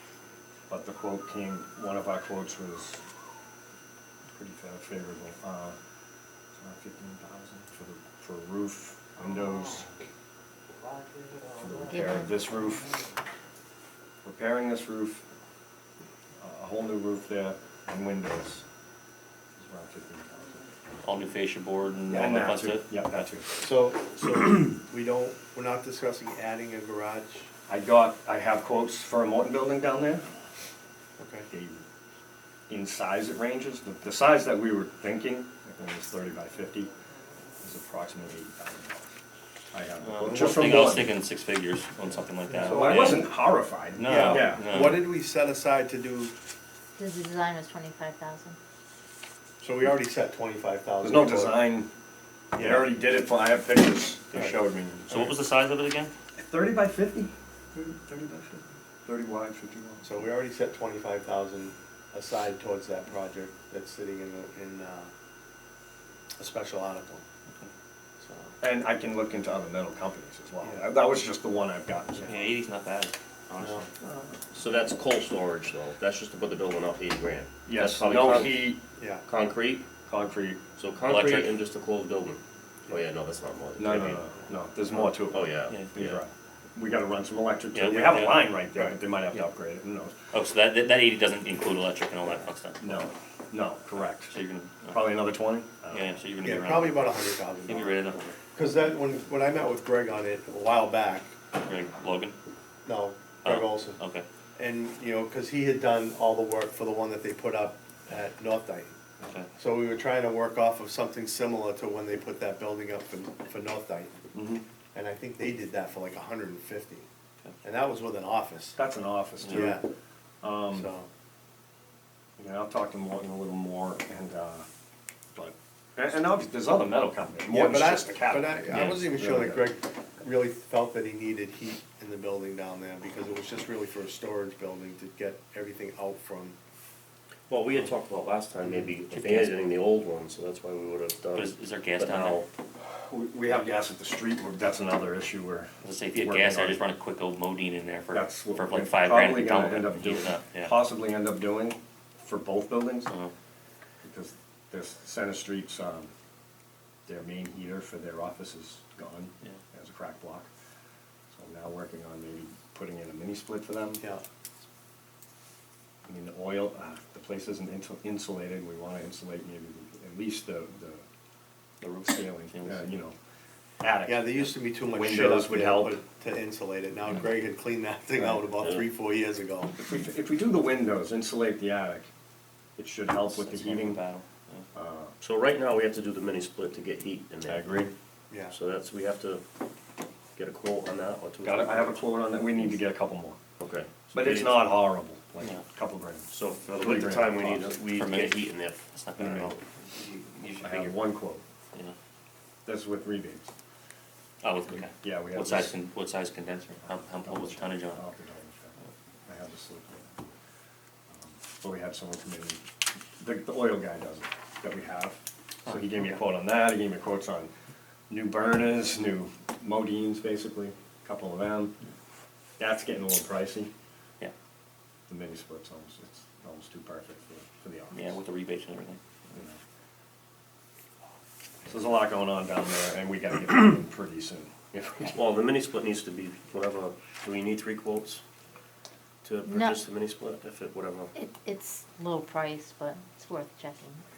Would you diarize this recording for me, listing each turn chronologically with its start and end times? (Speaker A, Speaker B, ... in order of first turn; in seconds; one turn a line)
Speaker A: 0.7-3.0
Speaker A: 4.3-5.8
Speaker A: 6.6-9.9
Speaker A: 11.5-13.1
Speaker B: 11.9-12.3
Speaker A: 14.2-15.2
Speaker A: 16.4-18.6
Speaker A: 19.6-20.6
Speaker C: 21.0-23.3
Speaker A: 22.1-23.6
Speaker D: 23.6-27.5
Speaker A: 27.7-30.2
Speaker D: 31.2-31.5
Speaker A: 31.5-31.9
Speaker A: 32.7-36.9
Speaker A: 37.6-39.2
Speaker A: 39.7-41.1
Speaker C: 40.0-43.2
Speaker A: 42.5-45.0
Speaker D: 42.6-43.2
Speaker C: 44.0-45.0
Speaker D: 44.0-46.3
Speaker B: 47.0-48.6
Speaker D: 49.6-51.6
Speaker A: 51.0-51.9
Speaker D: 52.5-52.9
Speaker A: 52.6-55.3
Speaker C: 55.1-56.1
Speaker A: 56.4-60.2
Speaker D: 60.0-65.1
Speaker D: 66.4-67.2
Speaker D: 68.2-68.6
Speaker A: 68.6-72.4
Speaker C: 72.2-73.9
Speaker D: 73.6-73.9
Speaker E: 74.5-78.7
Speaker A: 77.7-78.8
Speaker D: 78.9-79.2
Speaker E: 79.3-79.9
Speaker A: 80.1-80.6
Speaker E: 80.8-84.2
Speaker C: 81.1-81.5
Speaker A: 83.8-90.2
Speaker D: 84.9-85.2
Speaker E: 85.3-86.2
Speaker C: 85.7-85.9
Speaker C: 87.7-88.5
Speaker C: 90.3-93.1
Speaker A: 92.8-94.3
Speaker C: 94.3-95.1
Speaker A: 94.9-96.1
Speaker C: 95.9-98.3
Speaker D: 96.4-101.3
Speaker C: 101.5-102.4
Speaker D: 102.8-104.0
Speaker C: 103.5-104.3
Speaker D: 104.6-108.9
Speaker C: 109.2-109.5
Speaker D: 109.6-114.2
Speaker A: 114.3-114.6
Speaker D: 114.9-117.1
Speaker D: 117.6-118.8
Speaker A: 118.8-119.8
Speaker D: 119.5-119.9
Speaker A: 120.4-120.9
Speaker D: 120.7-121.1
Speaker A: 122.4-124.7
Speaker A: 125.3-129.7
Speaker D: 127.5-136.6
Speaker E: 137.5-142.5
Speaker C: 139.1-139.6
Speaker C: 141.3-142.4
Speaker A: 142.9-146.8
Speaker C: 145.8-150.7
Speaker A: 148.1-153.1
Speaker C: 153.1-153.3
Speaker A: 154.0-156.1
Speaker A: 157.1-160.5
Speaker A: 161.3-164.0
Speaker A: 166.1-171.0
Speaker C: 171.8-172.9
Speaker A: 172.1-173.2
Speaker A: 173.8-176.0
Speaker D: 174.1-179.7
Speaker A: 178.2-178.7
Speaker E: 178.6-178.8
Speaker A: 179.8-182.1
Speaker A: 182.8-184.0
Speaker C: 183.2-184.7
Speaker A: 184.7-185.1
Speaker E: 185.2-187.9
Speaker A: 187.5-187.9
Speaker D: 188.3-188.6
Speaker E: 188.5-189.4
Speaker E: 190.4-192.8
Speaker A: 191.4-193.4
Speaker E: 193.6-194.8
Speaker A: 194.1-197.8
Speaker E: 196.3-199.5
Speaker C: 197.9-200.7
Speaker A: 199.2-199.5
Speaker E: 200.2-200.9
Speaker A: 200.6-201.4
Speaker A: 202.7-203.5
Speaker C: 204.4-208.0
Speaker A: 204.7-205.8
Speaker A: 206.9-208.8
Speaker A: 209.3-210.2
Speaker A: 211.1-212.6
Speaker A: 213.2-217.5
Speaker A: 218.1-221.7
Speaker A: 222.6-223.7
Speaker A: 225.1-228.1
Speaker C: 227.9-229.0
Speaker A: 229.3-229.6
Speaker A: 231.7-235.2
Speaker E: 235.1-238.2
Speaker E: 239.2-241.1
Speaker B: 239.5-239.8
Speaker B: 241.2-244.0